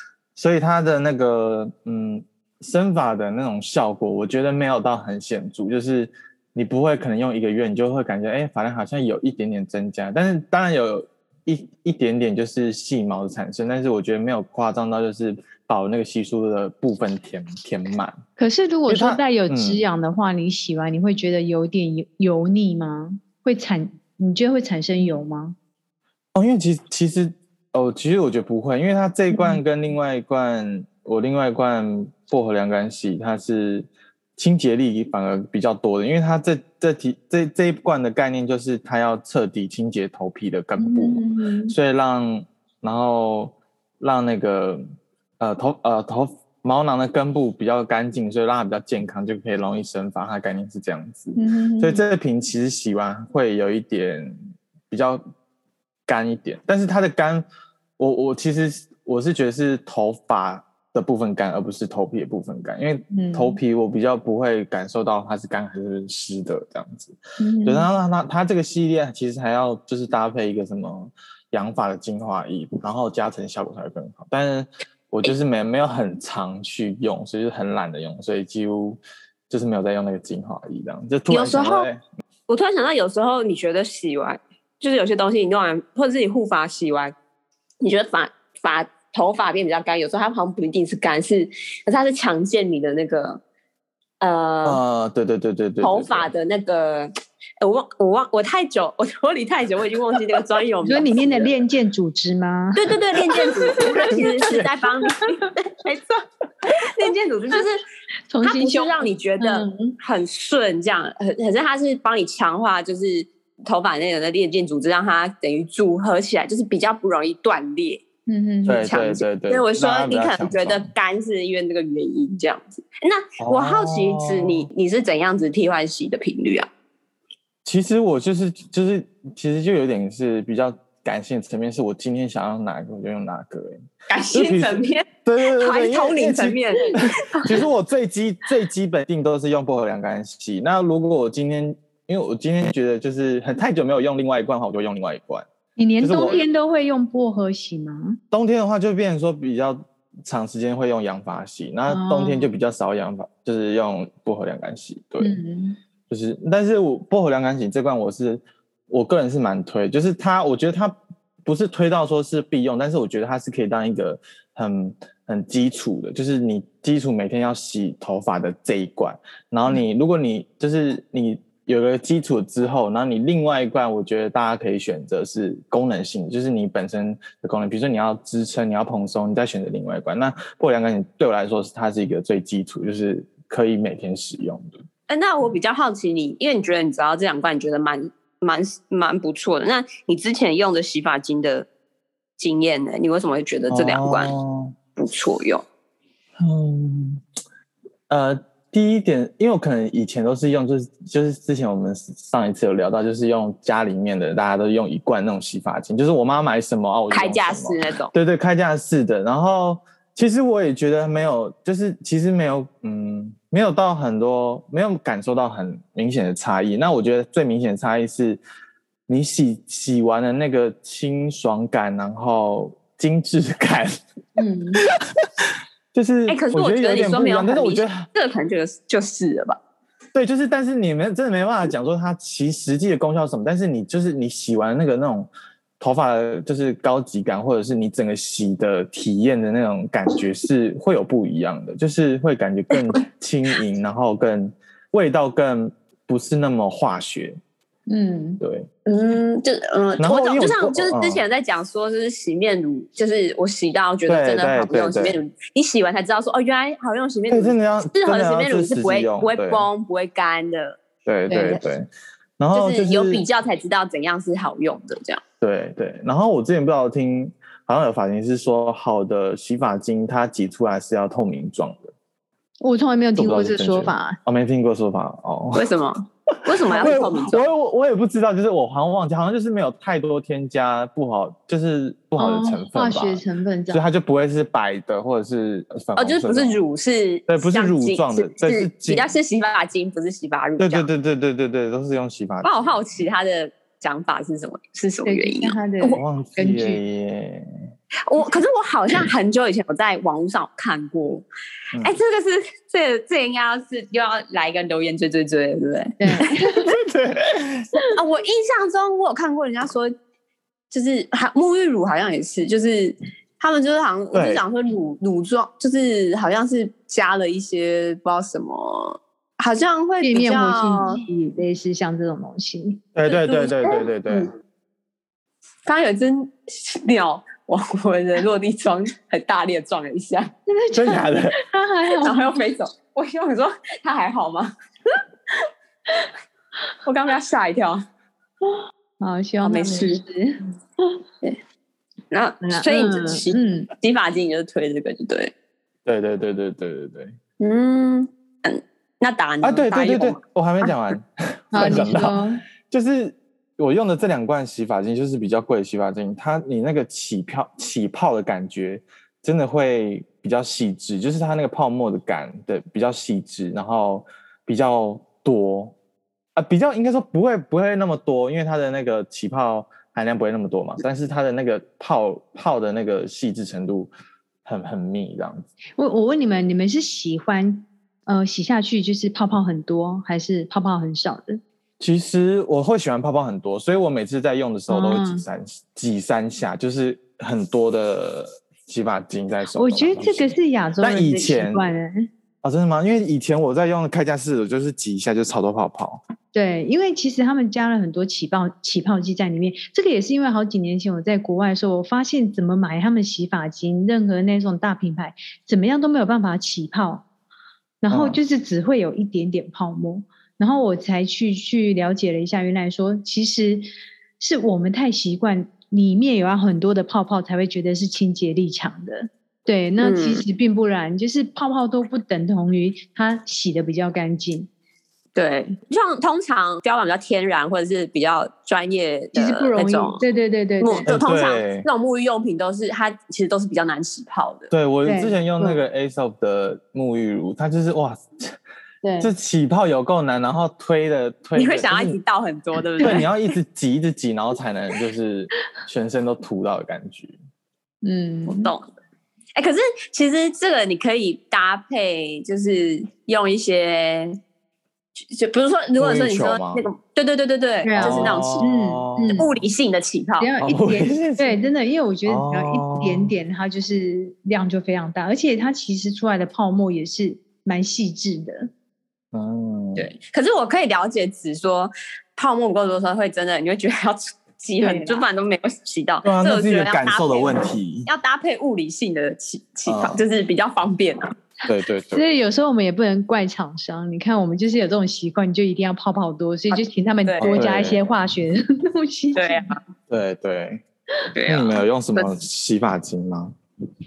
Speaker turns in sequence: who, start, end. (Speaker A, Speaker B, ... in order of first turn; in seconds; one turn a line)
Speaker A: 0.4-18.2
Speaker B: 18.4-25.6
Speaker A: 18.9-19.8
Speaker A: 26.4-44.8
Speaker B: 29.3-29.6
Speaker B: 40.8-41.8
Speaker A: 45.4-54.4
Speaker B: 51.4-52.0
Speaker A: 54.9-55.2
Speaker A: 56.1-57.5
Speaker A: 58.0-82.0
Speaker B: 63.1-63.6
Speaker B: 67.4-67.9
Speaker C: 81.3-81.9
Speaker C: 82.5-87.2
Speaker C: 87.8-93.4
Speaker C: 94.2-94.8
Speaker A: 94.6-96.3
Speaker C: 95.8-101.6
Speaker B: 100.8-104.2
Speaker C: 102.8-106.0
Speaker A: 103.8-104.8
Speaker C: 106.8-107.8
Speaker B: 108.3-110.0
Speaker C: 108.4-118.0
Speaker B: 118.3-118.9
Speaker A: 118.7-120.9
Speaker C: 118.8-126.7
Speaker A: 123.4-124.7
Speaker A: 127.7-145.5
Speaker C: 134.1-137.1
Speaker B: 136.9-137.4
Speaker B: 145.8-148.2
Speaker A: 146.0-146.4
Speaker A: 148.3-155.4
Speaker B: 151.9-152.5
Speaker B: 155.2-155.8
Speaker A: 156.1-184.8
Speaker C: 185.1-191.7
Speaker C: 192.4-194.3
Speaker A: 193.7-194.8
Speaker C: 195.0-195.6
Speaker A: 196.4-197.2
Speaker A: 198.1-218.4
Speaker C: 207.1-208.1
Speaker A: 219.1-224.0
Speaker B: 224.4-224.8
Speaker A: 224.9-228.1
Speaker C: 226.3-229.6
Speaker A: 230.1-247.4
Speaker B: 247.9-248.4
Speaker A: 248.4-248.7
Speaker C: 248.9-260.8
Speaker A: 250.0-251.2
Speaker A: 254.1-255.2
Speaker A: 257.3-259.7
Speaker A: 261.1-263.2
Speaker B: 261.3-261.6
Speaker C: 262.5-265.2
Speaker A: 265.4-271.9
Speaker B: 272.6-274.2
Speaker A: 273.2-275.7
Speaker C: 275.6-277.5
Speaker A: 276.5-286.6
Speaker B: 282.2-283.8
Speaker C: 286.0-290.9
Speaker A: 287.3-289.1
Speaker A: 290.6-292.6
Speaker C: 292.4-296.0
Speaker B: 295.1-296.8
Speaker A: 296.0-297.5
Speaker C: 298.1-301.3
Speaker C: 301.8-306.4
Speaker B: 306.0-306.7
Speaker A: 306.1-307.7
Speaker C: 307.9-309.9
Speaker C: 310.7-321.0
Speaker A: 314.1-314.4
Speaker B: 320.0-322.8
Speaker A: 322.9-324.3
Speaker C: 323.1-324.3
Speaker C: 325.7-330.3
Speaker B: 330.5-332.3
Speaker A: 330.7-331.4
Speaker C: 332.0-334.5
Speaker C: 336.8-337.9
Speaker B: 339.0-340.4
Speaker C: 339.4-340.0
Speaker C: 342.1-345.3
Speaker B: 342.4-343.7
Speaker A: 345.9-347.2
Speaker C: 347.4-350.2
Speaker A: 349.4-352.2
Speaker B: 351.5-352.4
Speaker A: 352.7-365.8
Speaker A: 366.4-373.9
Speaker A: 374.4-375.5
Speaker B: 375.8-381.4
Speaker A: 381.8-391.7
Speaker B: 384.7-385.2
Speaker B: 389.6-392.1
Speaker A: 392.4-396.0
Speaker B: 396.3-407.1
Speaker B: 407.8-413.7
Speaker A: 407.9-408.2
Speaker B: 414.2-424.5
Speaker C: 419.8-420.2
Speaker C: 425.1-430.0
Speaker B: 429.1-430.9
Speaker C: 430.6-434.5
Speaker A: 430.9-431.7
Speaker A: 434.5-438.4
Speaker B: 434.9-435.6
Speaker B: 438.8-439.1
Speaker A: 439.0-442.0
Speaker C: 441.4-443.1
Speaker A: 442.8-447.2
Speaker B: 447.8-448.5
Speaker C: 448.3-448.7
Speaker C: 449.4-454.2
Speaker C: 455.1-458.5
Speaker A: 455.8-456.7
Speaker B: 457.6-459.2
Speaker A: 457.8-459.4
Speaker C: 459.1-460.3
Speaker B: 460.2-468.5
Speaker A: 460.4-461.4
Speaker A: 462.1-463.1
Speaker A: 469.1-469.9
Speaker C: 469.8-481.1
Speaker B: 474.6-475.1
Speaker A: 476.0-477.9
Speaker A: 479.7-480.0
Speaker A: 481.5-482.0
Speaker B: 481.9-489.6
Speaker C: 486.5-487.4
Speaker A: 487.2-487.8
Speaker C: 489.2-489.6
Speaker A: 489.9-490.6
Speaker C: 491.1-492.1
Speaker A: 491.3-493.4